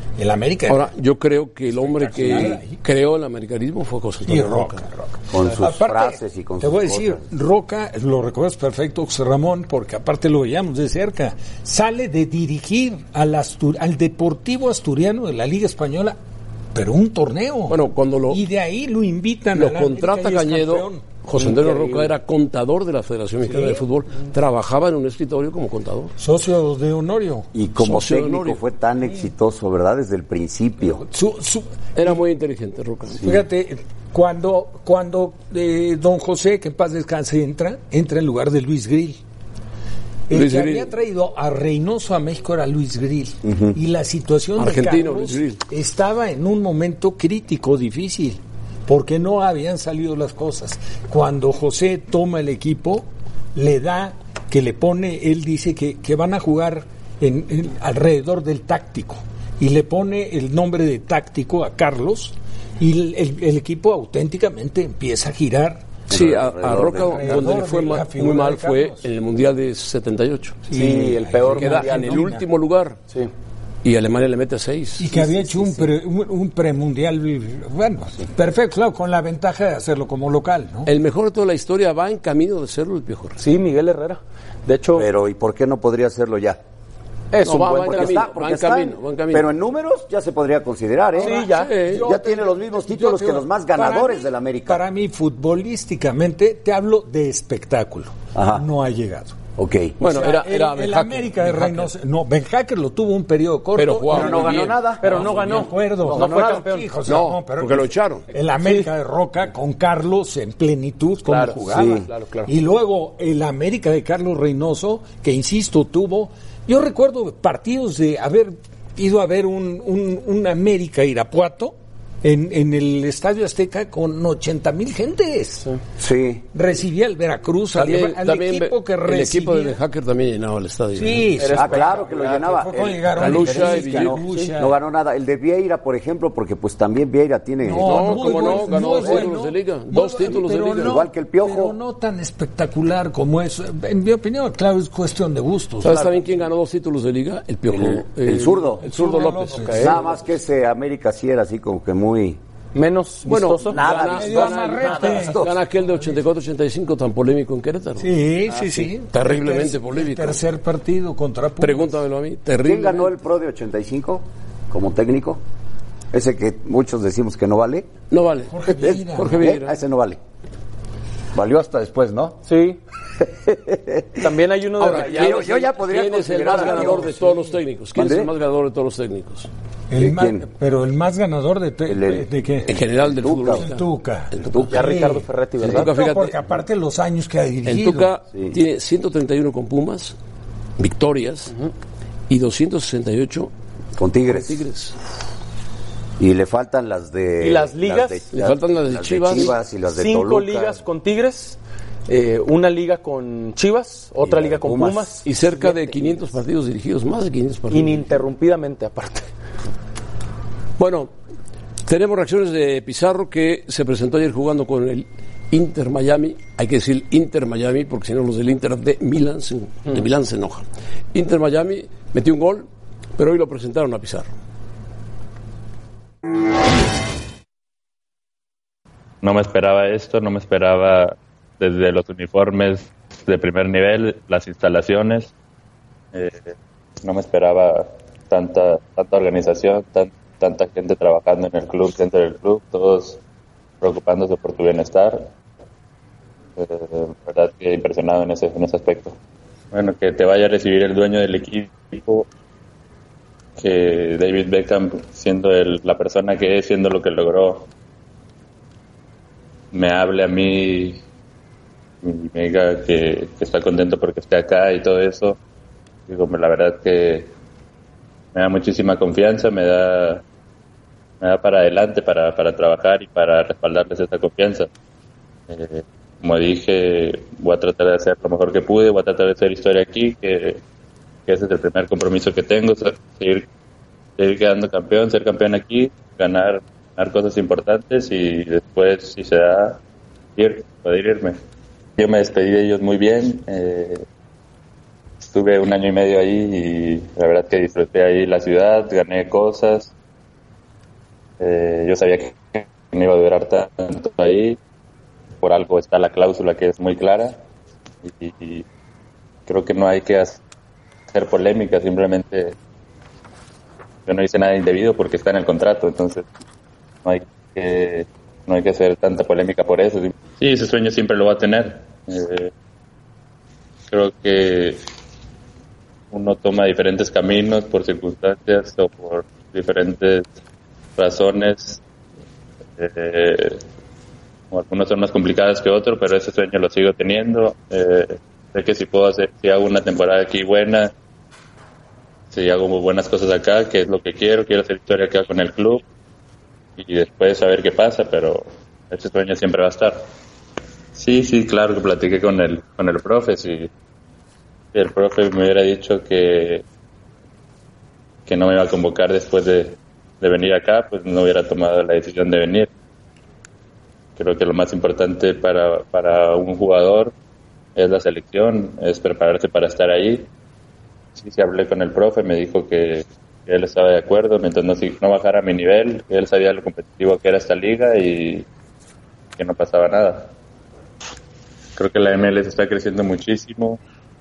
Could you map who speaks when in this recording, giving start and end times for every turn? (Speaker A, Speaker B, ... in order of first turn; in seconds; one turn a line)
Speaker A: 0.2-0.9
Speaker B: 0.7-4.8
Speaker A: 1.8-2.8
Speaker A: 4.2-16.2
Speaker C: 5.3-7.2
Speaker A: 16.7-21.7
Speaker B: 17.7-18.4
Speaker B: 19.5-26.1
Speaker A: 23.5-23.8
Speaker A: 26.2-27.5
Speaker C: 27.5-31.0
Speaker B: 27.8-28.6
Speaker A: 31.0-32.2
Speaker B: 31.9-33.2
Speaker A: 33.2-39.2
Speaker A: 40.3-65.9
Speaker B: 40.3-40.9
Speaker C: 43.5-43.8
Speaker B: 44.6-45.6
Speaker C: 66.1-67.6
Speaker B: 66.1-70.6
Speaker A: 66.7-69.0
Speaker A: 70.7-72.5
Speaker D: 70.7-72.3
Speaker B: 71.5-73.0
Speaker B: 73.8-75.2
Speaker A: 75.0-80.9
Speaker D: 75.2-75.9
Speaker B: 80.9-83.4
Speaker D: 83.4-85.1
Speaker C: 85.0-86.6
Speaker D: 87.3-88.2
Speaker B: 87.4-89.5
Speaker C: 87.7-91.4
Speaker D: 91.2-91.8
Speaker B: 91.2-92.1
Speaker A: 91.3-99.4
Speaker C: 91.9-94.8
Speaker C: 98.3-98.6
Speaker C: 99.6-100.0
Speaker B: 100.0-101.9
Speaker A: 100.0-125.7
Speaker B: 103.8-104.8
Speaker C: 104.1-105.4
Speaker D: 105.0-106.9
Speaker C: 106.1-106.7
Speaker B: 107.0-108.3
Speaker D: 108.6-108.9
Speaker D: 111.2-112.5
Speaker C: 111.7-112.1
Speaker C: 126.0-126.5
Speaker A: 126.5-129.8
Speaker B: 127.8-131.4
Speaker A: 130.9-134.8
Speaker D: 131.4-132.5
Speaker C: 131.5-139.3
Speaker B: 133.2-134.2
Speaker A: 137.6-146.2
Speaker B: 137.8-141.0
Speaker C: 140.8-141.8
Speaker B: 145.8-149.9
Speaker C: 147.7-148.8
Speaker A: 148.8-150.0
Speaker D: 149.6-150.0
Speaker C: 149.8-152.4
Speaker D: 152.7-154.5
Speaker B: 153.3-158.1
Speaker C: 153.7-155.6
Speaker A: 154.0-155.6
Speaker A: 158.0-162.0
Speaker B: 158.8-160.4
Speaker B: 161.6-163.1
Speaker C: 162.6-165.4
Speaker C: 166.1-167.9
Speaker B: 168.1-169.8
Speaker A: 168.5-169.5
Speaker C: 168.8-170.2
Speaker C: 171.3-172.4
Speaker D: 172.5-172.8
Speaker C: 173.4-174.2
Speaker D: 174.2-175.7
Speaker B: 174.8-179.5
Speaker C: 174.9-177.2
Speaker A: 176.8-177.4
Speaker C: 177.9-178.3
Speaker A: 179.9-182.7
Speaker C: 180.0-180.5
Speaker C: 181.9-183.7
Speaker B: 182.7-184.7
Speaker A: 183.5-188.1
Speaker C: 184.4-184.7
Speaker D: 184.7-185.9
Speaker B: 185.6-186.4
Speaker B: 187.7-190.2
Speaker B: 190.8-191.5
Speaker B: 192.3-193.5
Speaker C: 194.0-194.6
Speaker B: 194.3-195.0
Speaker C: 196.2-200.8
Speaker D: 197.4-198.3
Speaker B: 198.3-199.6
Speaker D: 199.9-206.0
Speaker C: 204.2-205.1
Speaker B: 205.2-208.1
Speaker D: 207.7-209.3
Speaker B: 210.8-211.1
Speaker B: 211.9-224.3
Speaker E: 229.2-235.3
Speaker E: 236.1-236.5
Speaker E: 237.0-243.2
Speaker E: 243.8-245.3
Speaker E: 246.6-249.2
Speaker E: 249.7-252.3
Speaker E: 253.6-257.7
Speaker E: 259.7-261.0
Speaker E: 262.0-265.4
Speaker E: 266.1-267.3
Speaker E: 268.3-270.2
Speaker E: 271.2-274.7
Speaker E: 275.5-280.6
Speaker E: 281.3-283.5
Speaker E: 284.2-289.8
Speaker E: 290.4-291.4
Speaker E: 292.0-294.0
Speaker E: 295.2-299.9
Speaker E: 301.4-304.6
Speaker E: 305.4-307.4
Speaker E: 308.0-308.7
Speaker E: 309.5-310.4
Speaker E: 311.1-312.6
Speaker E: 314.1-316.3
Speaker E: 317.0-322.5
Speaker E: 323.9-324.8
Speaker E: 326.1-330.3
Speaker E: 331.0-331.8
Speaker E: 332.8-333.6
Speaker E: 334.5-340.9
Speaker E: 342.3-345.8
Speaker E: 346.8-350.0
Speaker E: 350.9-353.7
Speaker E: 354.7-356.6
Speaker E: 358.3-362.7
Speaker E: 364.2-367.1
Speaker E: 367.8-370.3
Speaker E: 371.1-378.5
Speaker E: 379.4-380.3
Speaker E: 381.8-383.8